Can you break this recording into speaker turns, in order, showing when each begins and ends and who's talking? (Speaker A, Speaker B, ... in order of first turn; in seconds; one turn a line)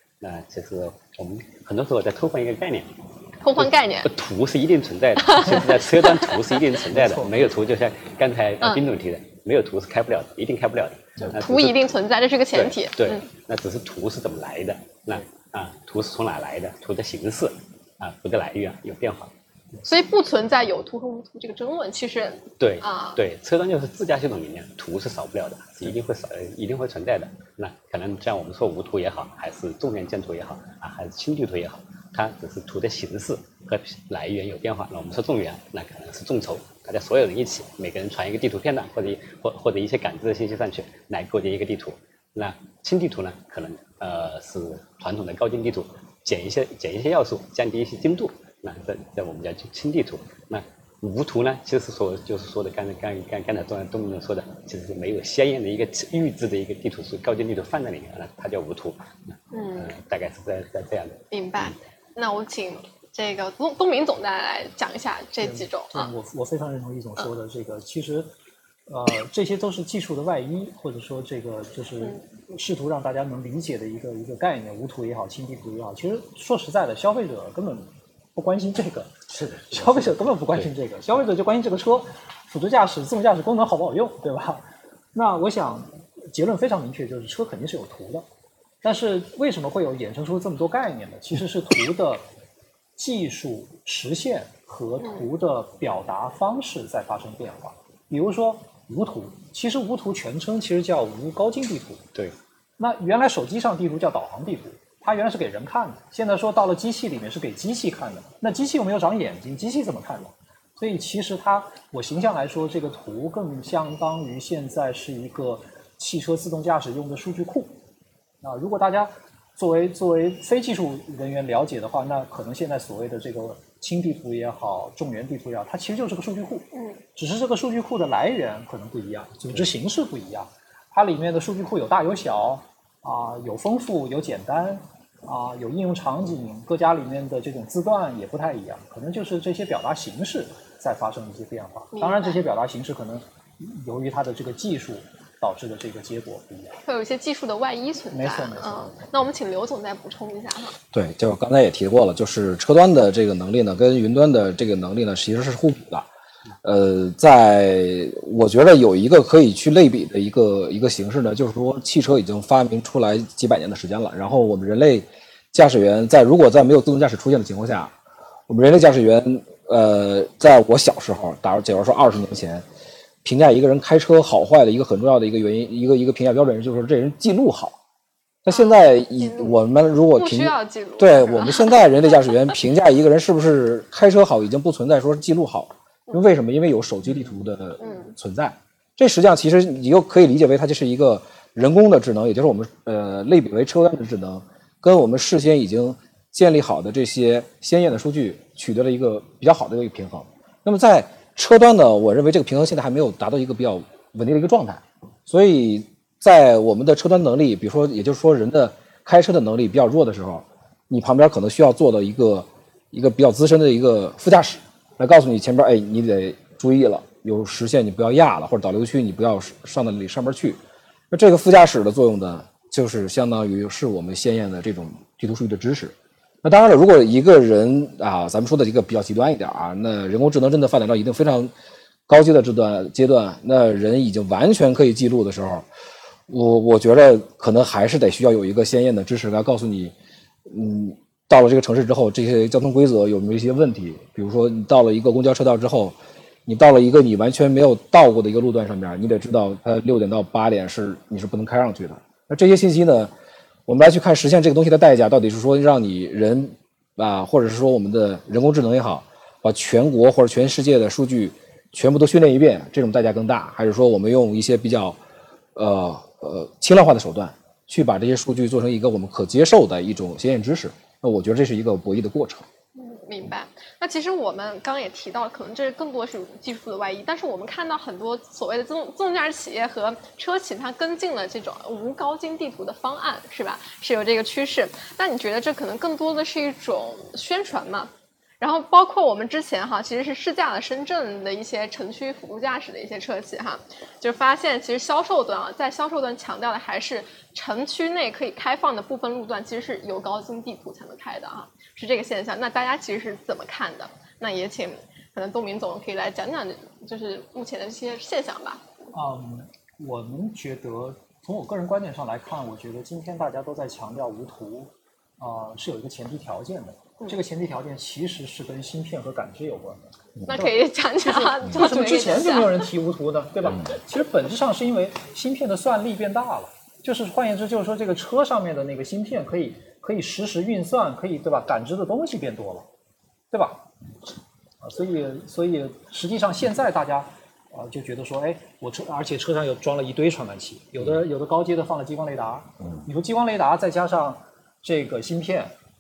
Speaker A: 0.2-3.0
Speaker B: 3.4-4.1
Speaker A: 3.6-12.0
Speaker B: 5.3-6.4
Speaker C: 7.0-7.3
Speaker B: 11.3-13.3
Speaker A: 12.5-19.3
Speaker B: 19.9-23.2
Speaker A: 22.6-61.3
Speaker B: 59.5-59.9
Speaker B: 61.3-66.1
Speaker C: 65.4-68.3
Speaker C: 68.9-79.1
Speaker C: 79.7-88.2
Speaker C: 88.8-92.2
Speaker C: 93.0-102.0
Speaker C: 102.8-117.8
Speaker C: 118.4-146.8
Speaker B: 126.7-127.0
Speaker B: 141.9-142.4
Speaker B: 146.8-150.8
Speaker C: 148.1-149.0
Speaker D: 150.9-156.1
Speaker D: 156.6-167.9
Speaker D: 168.5-172.6
Speaker D: 173.2-177.8
Speaker D: 178.4-220.6
Speaker B: 178.5-179.6
Speaker B: 180.1-182.6
Speaker B: 187.8-188.1
Speaker D: 221.1-231.5
Speaker D: 232.1-235.7
Speaker D: 236.3-239.9
Speaker D: 240.4-253.1
Speaker D: 253.7-265.0
Speaker D: 265.6-272.5
Speaker B: 272.8-308.6
Speaker C: 308.9-332.7
Speaker B: 320.3-322.7
Speaker C: 333.3-333.7
Speaker C: 334.6-345.5